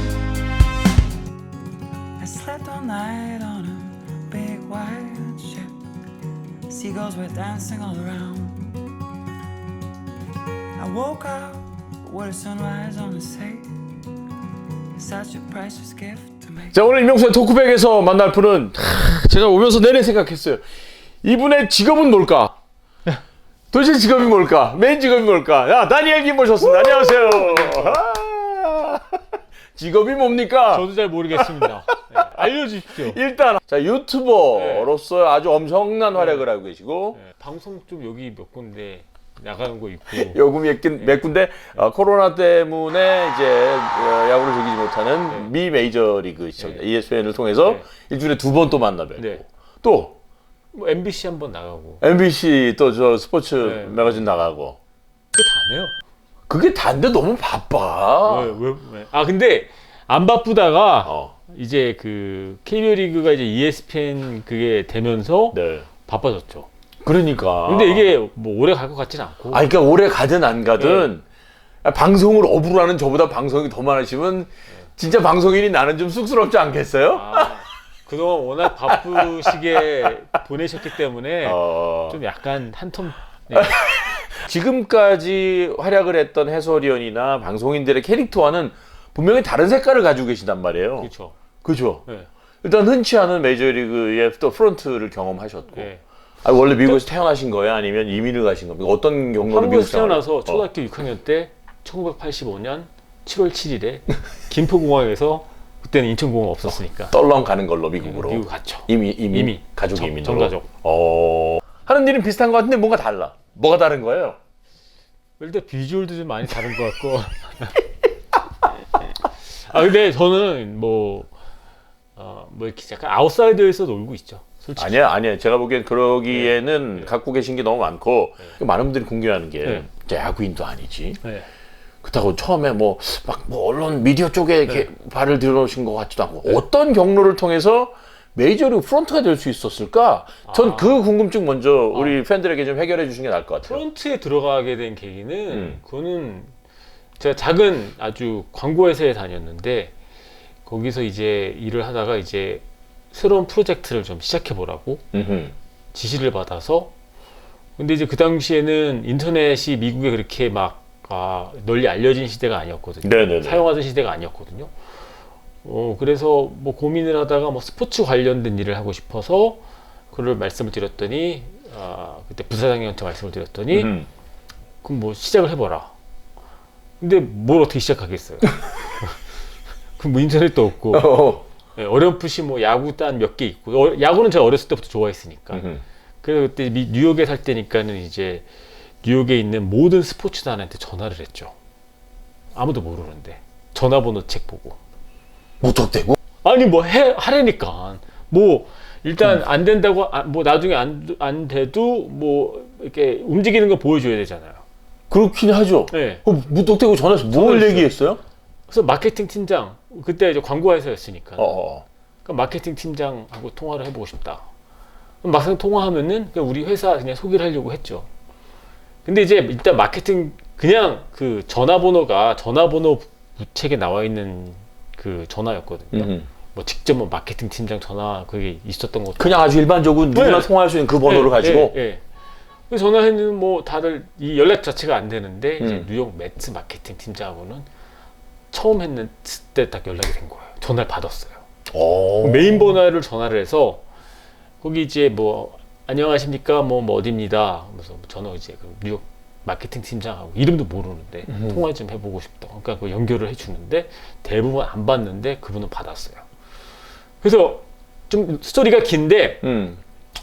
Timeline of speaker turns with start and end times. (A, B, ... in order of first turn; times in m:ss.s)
0:02.2-0:05.8 A
0:06.7-0:08.9 A
0:10.8-0:14.0 A
0:14.9-0:16.7 A
0:16.7-0:20.6 B
0:21.2-0:22.6 B
0:23.7-0:29.2 B
0:26.7-0:28.0 C
0:29.8-0:31.6 B
0:30.7-0:33.2 C
0:33.0-0:37.2 B
0:34.5-0:34.9 C
0:36.1-0:36.4 C
0:37.2-0:40.4 C
0:40.1-0:50.1 B
0:49.2-0:49.4 C
0:50.7-0:52.0 C
0:52.0-0:54.8 B
0:53.6-0:54.2 C
0:55.3-0:55.9 C
0:56.5-0:58.6 B
0:58.2-1:06.7 C
1:01.0-1:01.3 B
1:05.5-1:05.9 B
1:07.0-1:08.1 B
1:07.7-1:09.6 C
1:09.5-1:11.2 B
1:10.8-1:11.1 C
1:11.8-1:17.6 B
1:17.1-1:23.8 C
1:21.4-1:22.2 B
1:23.5-1:31.1 B
1:31.0-1:31.4 C
1:31.6-1:32.0 B
1:32.6-1:35.9 B
1:35.8-1:36.0 C
1:36.4-1:40.6 B
1:36.8-1:37.0 C
1:39.4-1:47.2 C
1:47.1-1:54.4 B
1:48.0-1:50.7 C
1:55.4-1:57.8 C
1:58.8-2:01.3 C
2:02.2-2:05.0 C
2:04.8-2:11.2 B
2:06.3-2:07.1 C
2:12.0-2:23.8 B
2:20.5-2:21.0 C
2:21.9-2:22.2 C
2:23.6-2:26.5 C
2:25.5-2:25.8 B
2:27.2-2:29.9 C
2:30.7-2:35.1 C
2:35.1-2:35.5 B
2:35.9-2:36.9 C
2:37.8-2:44.7 C
2:43.0-2:43.6 B
2:45.6-2:49.6 C
2:50.1-2:53.9 C
2:53.7-2:54.1 B
2:54.8-2:55.9 C
2:57.0-2:59.2 C
3:00.0-3:01.1 C
3:00.9-3:01.4 B
3:01.8-3:05.7 C
3:05.5-3:05.8 B
3:06.2-3:08.5 C
3:09.0-3:11.5 C
3:12.5-3:14.8 C
3:15.6-3:16.2 B
3:16.4-3:24.6 C
3:25.1-3:28.2 B
3:25.9-3:26.2 C
3:27.3-3:27.9 C
3:28.7-3:31.6 C
3:31.4-3:31.8 B
3:32.2-3:34.5 C
3:35.2-3:38.1 C
3:39.0-3:49.5 C
3:45.9-3:46.3 B
3:49.2-3:51.8 B
3:50.1-3:50.5 C
3:51.0-3:52.0 C
3:52.7-3:57.7 C
3:55.6-3:55.9 B
3:58.5-4:01.4 C
4:01.7-4:02.7 B
4:02.2-4:03.8 C
4:04.6-4:16.2 C
4:17.2-4:19.4 C
4:19.4-4:19.8 B